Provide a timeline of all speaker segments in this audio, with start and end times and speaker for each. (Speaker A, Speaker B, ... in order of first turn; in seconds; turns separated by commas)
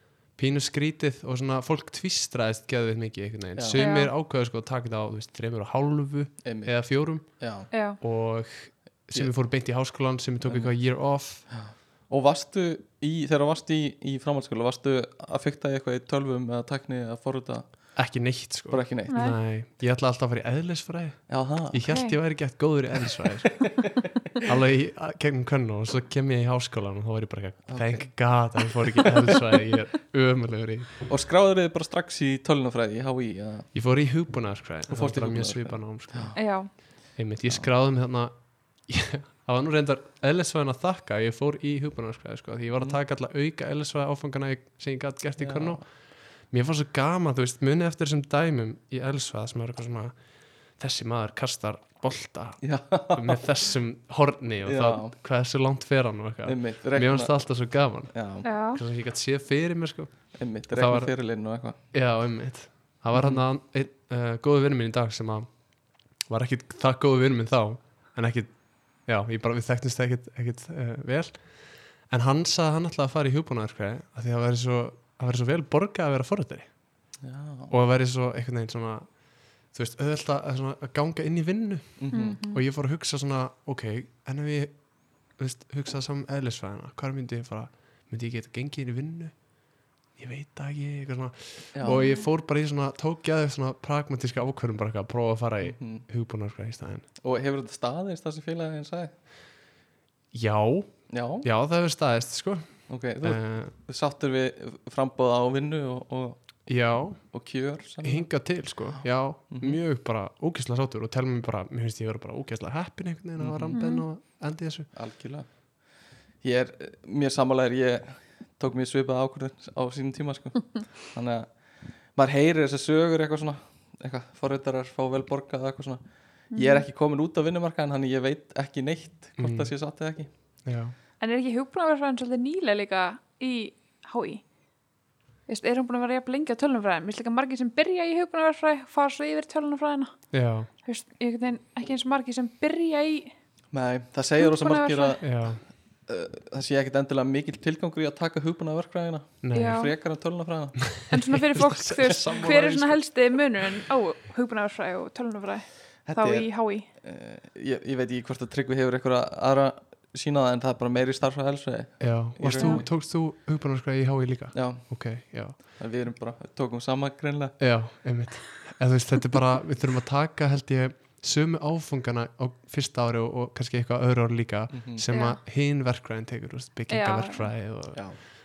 Speaker A: 0.3-7.3, Speaker B: 3.5-3.9, Speaker C: 3.8-4.1, Speaker B: 6.4-7.7, Speaker C: 7.7-8.0, Speaker A: 8.0-11.4, Speaker B: 10.4-10.7, Speaker B: 11.5-17.7, Speaker A: 17.9-23.9, Speaker B: 18.7-19.2, Speaker C: 19.1-19.4, Speaker B: 21.3-21.8, Speaker C: 21.9-22.1, Speaker B: 23.4-24.1, Speaker A: 24.4-31.1, Speaker B: 27.7-28.1, Speaker B: 31.1-33.7, Speaker A: 33.7-36.4, Speaker B: 34.9-36.4, Speaker C: 36.4-36.7, Speaker A: 37.1-38.3, Speaker A: 38.9-45.8, Speaker B: 45.4-45.8, Speaker A: 46.5-50.1, Speaker A: 50.8-58.1, Speaker B: 52.6-53.4, Speaker B: 54.6-55.1, Speaker B: 56.4-57.3, Speaker B: 58.1-58.5, Speaker C: 58.4-58.8, Speaker A: 58.7-61.1, Speaker B: 60.3-61.8, Speaker A: 61.9-65.5, Speaker B: 63.1-63.4, Speaker A: 66.3-71.4, Speaker A: 72.1-76.7, Speaker B: 77.2-77.7, Speaker A: 77.7-79.1, Speaker A: 79.7-84.7, Speaker B: 82.0-82.4, Speaker C: 82.1-82.6, Speaker A: 85.4-89.3, Speaker A: 90.2-97.0, Speaker B: 91.7-92.1, Speaker C: 91.8-92.2, Speaker B: 95.6-96.0, Speaker B: 97.2-99.1, Speaker A: 100.3-103.7, Speaker B: 101.1-101.5, Speaker B: 102.9-106.4, Speaker A: 106.7-107.2, Speaker B: 107.3-108.3, Speaker A: 108.0-114.9, Speaker B: 109.0-109.8, Speaker B: 113.4-113.8, Speaker C: 113.8-114.0, Speaker B: 114.9-115.5, Speaker B: 116.4-121.5, Speaker B: 122.1-130.3, Speaker C: 126.5-126.8, Speaker A: 129.4-129.7, Speaker A: 130.6-130.9, Speaker C: 131.2-134.4, Speaker C: 135.5-140.1, Speaker A: 140.3-140.7, Speaker C: 140.8-143.3, Speaker B: 143.7-145.5, Speaker C: 144.4-145.2, Speaker A: 145.2-145.6, Speaker B: 146.1-150.8, Speaker A: 149.4-149.8, Speaker C: 149.5-149.9, Speaker A: 150.9-153.0, Speaker C: 151.1-156.9, Speaker B: 156.1-162.8, Speaker A: 162.0-165.6, Speaker C: 162.6-162.8, Speaker B: 164.5-164.9, Speaker B: 165.8-167.5, Speaker A: 167.6-178.1, Speaker B: 174.7-175.0, Speaker C: 175.1-175.4, Speaker C: 176.9-177.5